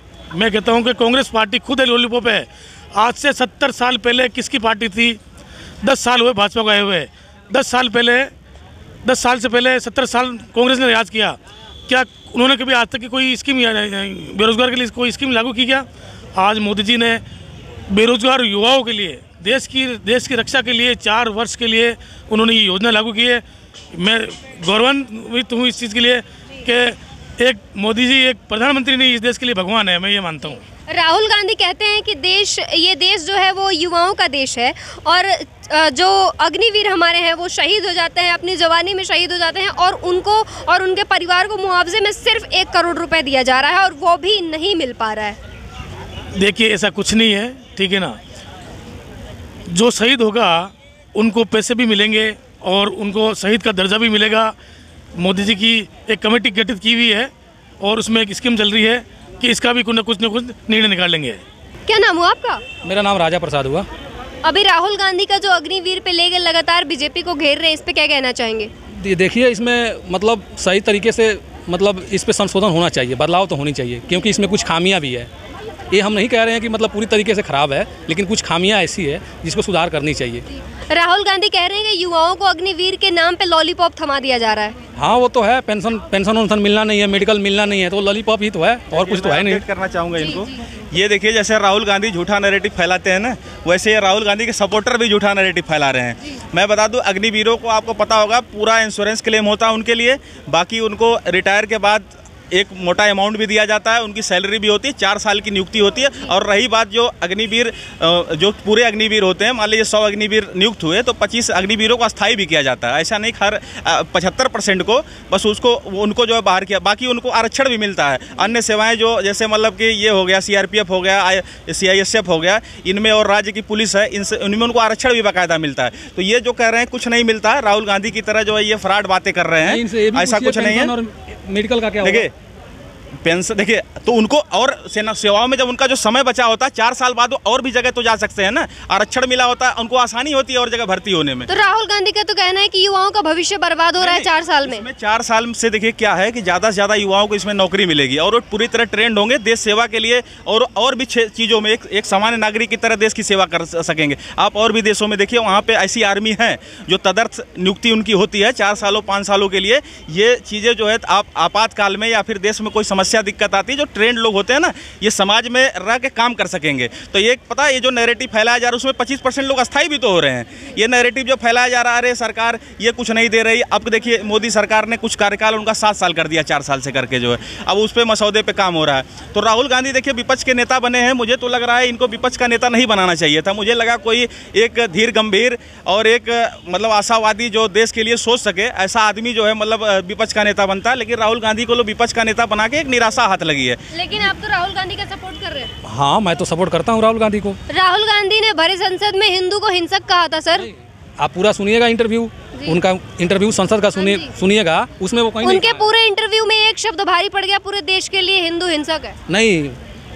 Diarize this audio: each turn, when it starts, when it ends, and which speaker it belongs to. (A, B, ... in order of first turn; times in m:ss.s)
0:00.3-0:05.2 A
0:05.8-0:08.3 A
0:09.0-0:17.2 A
0:17.9-0:30.6 A
0:30.5-0:45.4 B
0:46.4-0:48.2 A
0:49.7-0:54.5 A
0:55.2-1:01.4 A
1:01.9-1:02.6 B
1:02.8-1:03.9 C
1:04.4-1:08.7 B
1:09.0-1:15.3 C
1:14.1-1:14.3 B
1:15.9-1:20.4 C
1:20.5-1:24.8 B
1:25.0-1:29.6 C
1:28.9-2:10.9 D
1:30.2-1:30.5 B
2:09.6-2:12.3 C
2:12.0-2:12.3 D
2:13.2-2:21.5 D
2:21.5-2:24.8 B
2:24.0-3:13.8 D
3:13.9-3:15.7 B
3:15.8-3:17.6 C
3:17.7-3:20.7 B
3:20.6-3:25.9 C
3:24.0-3:24.3 B
3:25.4-3:29.2 B
3:29.3-3:29.8 C